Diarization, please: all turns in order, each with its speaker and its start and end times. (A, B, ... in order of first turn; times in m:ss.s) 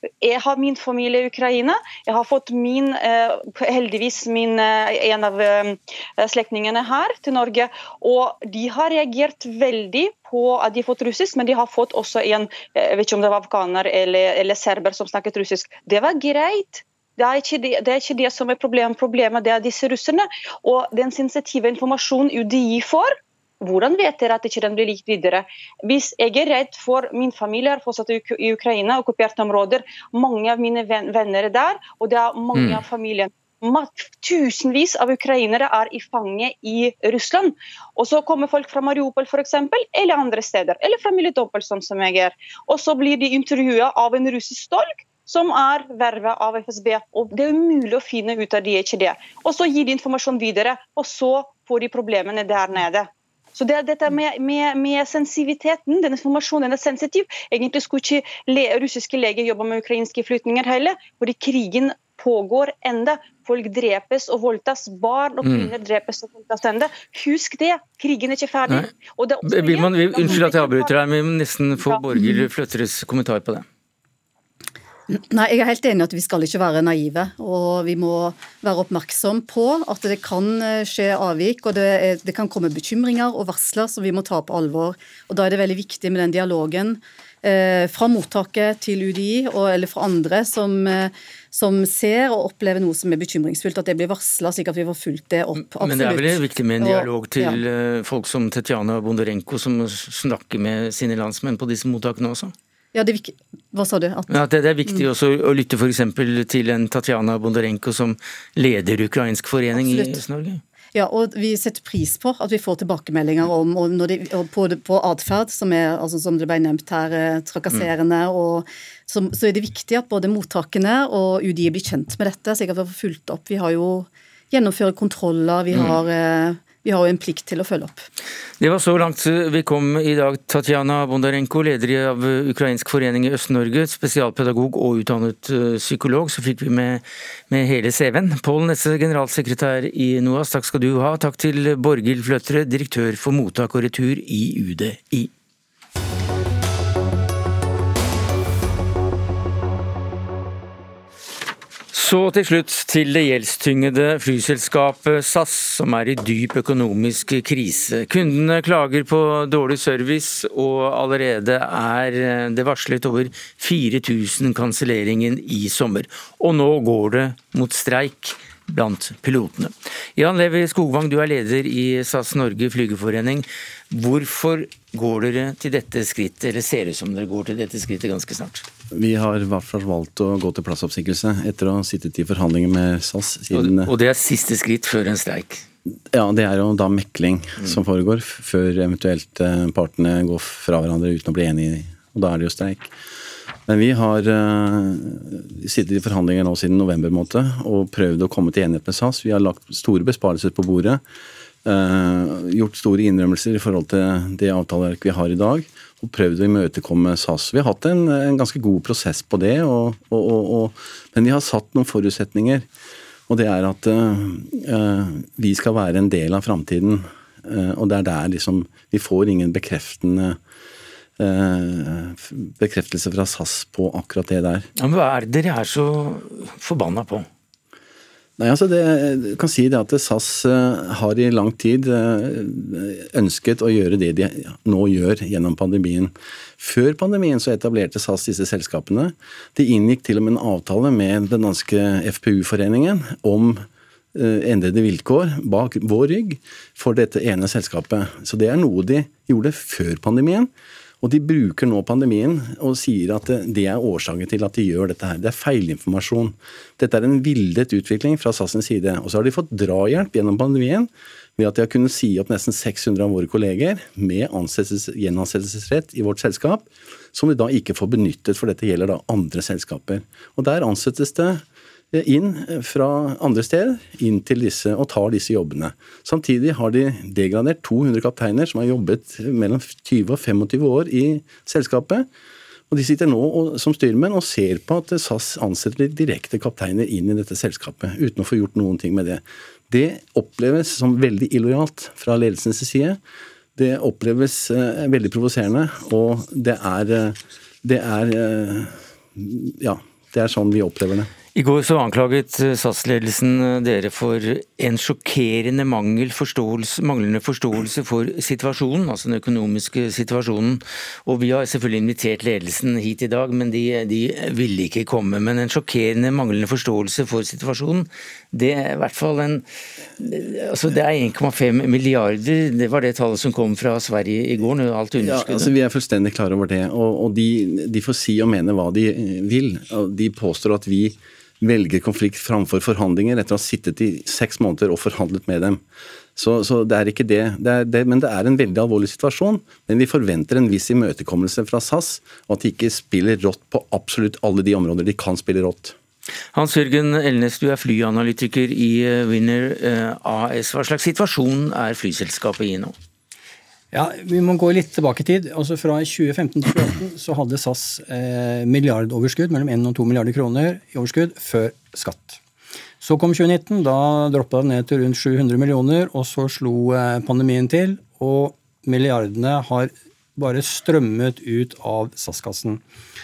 0:00.2-1:10.9 A
0:32.5-0:32.8 B
1:05.4-1:05.7 B
1:09.4-1:13.7 B
1:11.8-1:12.1 A
1:15.1-1:37.6 C
1:35.6-1:42.5 B
1:42.9-1:45.1 C
1:44.3-1:50.6 B
1:49.7-1:50.2 C
1:51.0-2:08.1 C
2:05.7-2:06.0 B
2:08.6-2:25.3 B
2:31.9-2:58.7 B
2:58.9-3:03.9 D
3:03.5-3:05.6 B
3:06.1-3:12.9 D
3:13.7-3:21.0 D
3:21.6-3:32.7 D
3:33.3-3:40.4 D
3:41.2-3:44.7 D
3:44.8-3:47.3 B
3:48.4-4:10.5 D
4:11.0-4:42.1 D
4:42.7-4:53.0 D
4:53.6-5:01.1 D
5:01.4-5:19.4 B
5:20.0-5:25.5 B
5:25.0-5:35.6 D
5:36.2-5:45.8 D
5:46.3-5:52.8 B
5:53.7-6:02.2 E
6:02.8-6:12.6 E